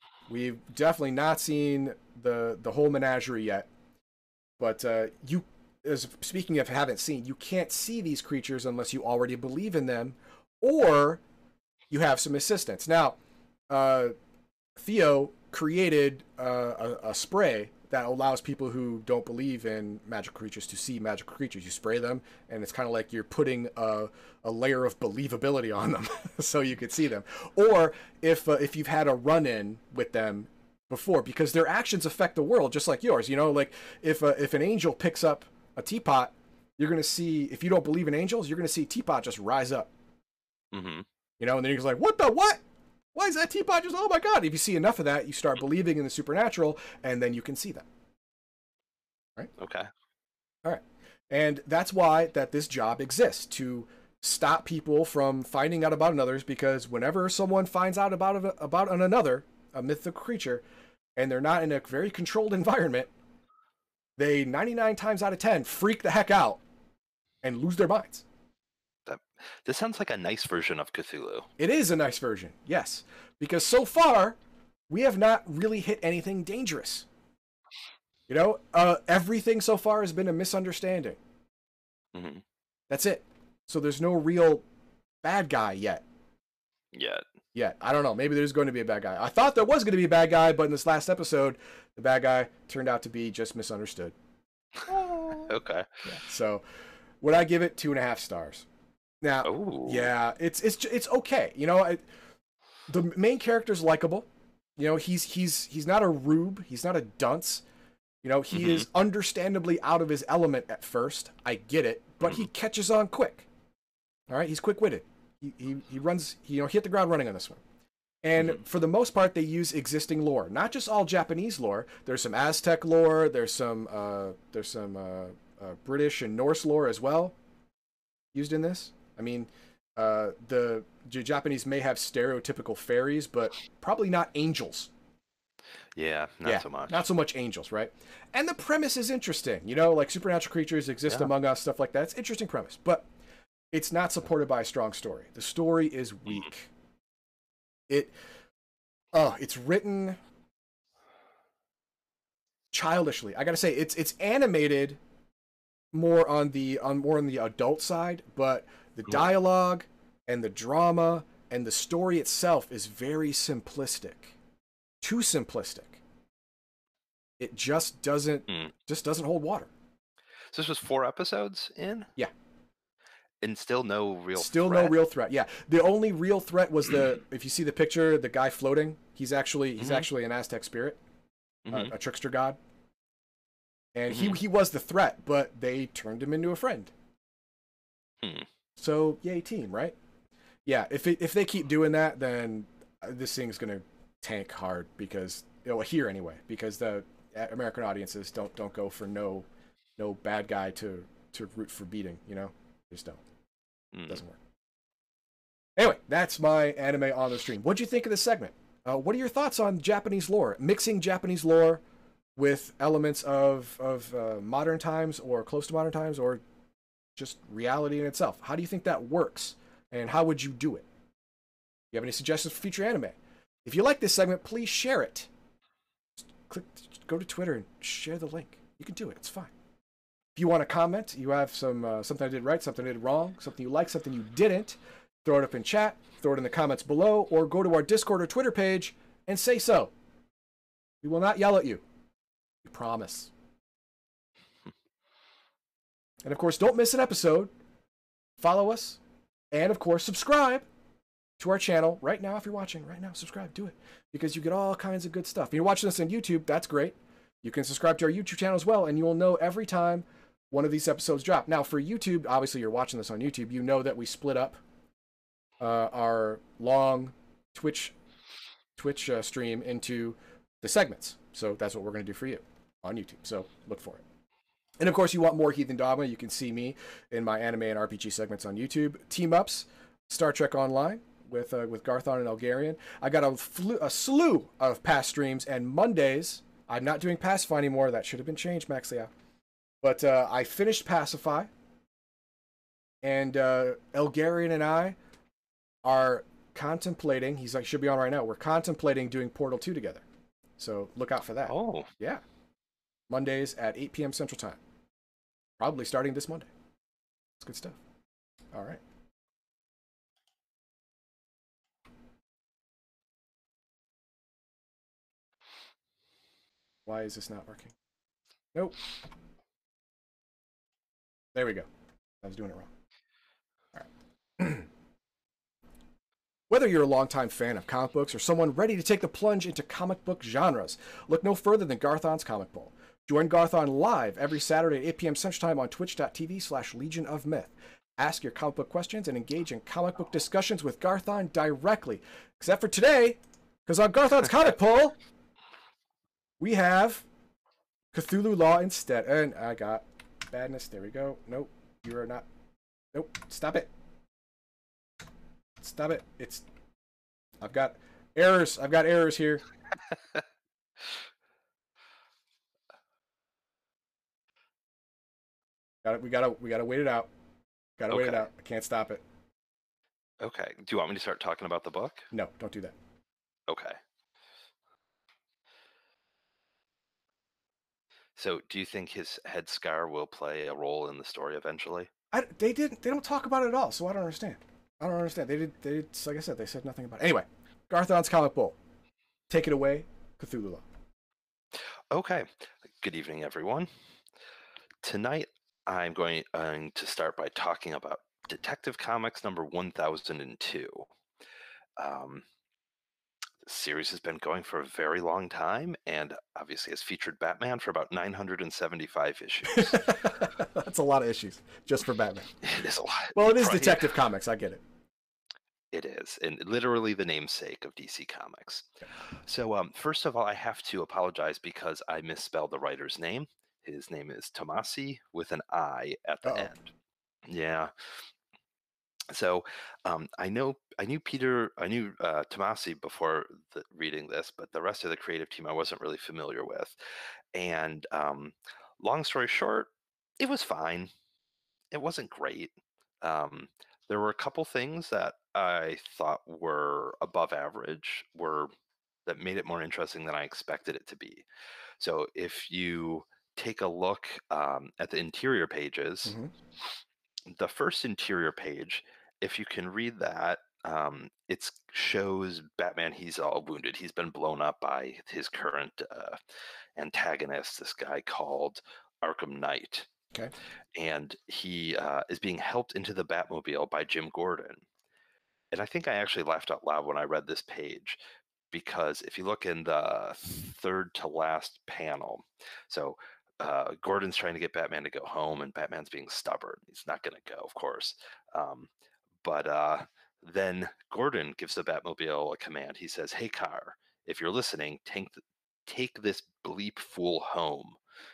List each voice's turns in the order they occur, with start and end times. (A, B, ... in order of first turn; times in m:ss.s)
0:00.3-0:03.7 A
0:04.6-0:11.2 A
0:11.9-0:13.2 A
0:13.7-0:14.1 A
0:14.8-0:39.9 A
0:40.7-0:41.0 B
0:41.4-0:42.6 A
0:43.1-0:47.9 A
0:49.6-0:49.9 B
0:50.6-1:00.6 A
1:01.2-1:03.1 A
1:04.2-1:06.6 A
1:07.4-1:08.2 A
1:09.0-1:11.5 B
1:11.6-1:14.4 A
1:14.9-1:17.1 A
1:18.3-1:21.2 A
1:22.1-1:22.4 B
1:22.9-1:24.6 A
1:25.2-1:26.0 A
1:26.9-1:27.2 B
1:27.5-1:34.1 A
1:34.9-1:35.5 A
1:35.3-1:36.0 B
1:36.0-1:36.6 A
1:37.2-1:38.7 A
1:39.2-1:42.0 A
1:39.4-1:40.1 B
1:42.9-1:47.6 A
1:48.2-1:53.5 A
1:48.5-1:48.8 B
1:54.3-1:57.6 A
1:58.2-2:07.3 A
2:08.3-2:14.9 A
2:15.9-2:17.0 B
2:16.4-2:23.1 A
2:23.7-2:26.7 A
2:29.1-2:30.2 A
2:32.7-2:35.0 A
2:35.9-2:44.4 A
2:45.0-2:46.0 A
2:47.4-2:49.7 A
2:50.5-2:52.1 B
2:53.4-2:54.9 B
2:54.4-3:01.0 A
2:59.8-3:00.1 B
3:01.7-3:01.9 B
3:01.7-3:02.6 A
3:03.9-3:06.9 A
3:04.1-3:04.4 B
3:08.2-3:08.5 B
3:08.8-3:10.0 A
3:10.6-3:23.2 A
3:23.9-3:24.2 B
3:24.1-3:24.4 A
3:25.8-3:31.8 A
3:32.4-3:36.4 A
3:37.2-3:40.8 A
3:41.9-3:45.3 A
3:46.4-3:49.5 A
3:50.4-3:59.9 A
4:01.0-4:01.8 A
4:02.6-4:03.3 A
4:06.2-4:07.5 A
4:08.4-4:09.0 A
4:09.5-4:10.6 A
4:11.4-4:24.6 A
4:25.6-4:27.9 A
4:28.8-4:34.0 A
4:34.8-4:49.1 A
4:49.8-4:51.5 A
4:53.0-4:55.0 A
4:55.8-5:00.0 A
5:00.6-5:02.2 A
5:01.5-5:01.9 B
5:03.1-5:04.6 A
5:05.6-5:06.5 A
5:07.4-5:07.8 A
5:08.5-5:08.8 A
5:16.8-5:17.7 A
5:18.5-5:18.8 A
5:21.3-5:21.7 A
5:22.2-5:22.7 A
5:24.4-5:24.7 A
5:26.5-5:44.9 A
5:46.4-5:47.0 A
5:47.9-5:52.3 A
5:52.9-5:53.7 A
5:55.6-5:56.4 A
5:57.4-5:59.4 A
6:05.8-6:07.1 A
6:07.8-6:09.0 A
6:07.9-6:08.2 B
6:10.2-6:12.1 B
6:12.1-6:12.7 A
6:13.5-6:13.8 B
6:18.2-6:21.9 B
6:22.1-6:28.6 A
6:29.3-6:30.6 A
6:31.9-6:33.7 B
6:34.8-6:40.9 B
6:41.8-6:42.2 B
6:43.4-6:49.9 B
6:49.5-6:52.4 A
6:52.4-6:53.9 B
6:53.1-6:54.6 A
6:55.7-7:06.7 B
7:06.2-7:06.5 A
7:07.2-7:08.0 B
7:09.1-7:16.8 B
7:17.3-7:20.9 B
7:21.7-7:28.5 B
7:29.0-7:31.2 B
7:31.8-7:46.2 B
7:36.0-7:36.3 A
7:46.8-7:49.9 B
7:50.7-7:54.6 B
7:55.5-7:58.0 B
7:58.5-8:08.7 B
8:09.2-8:17.8 B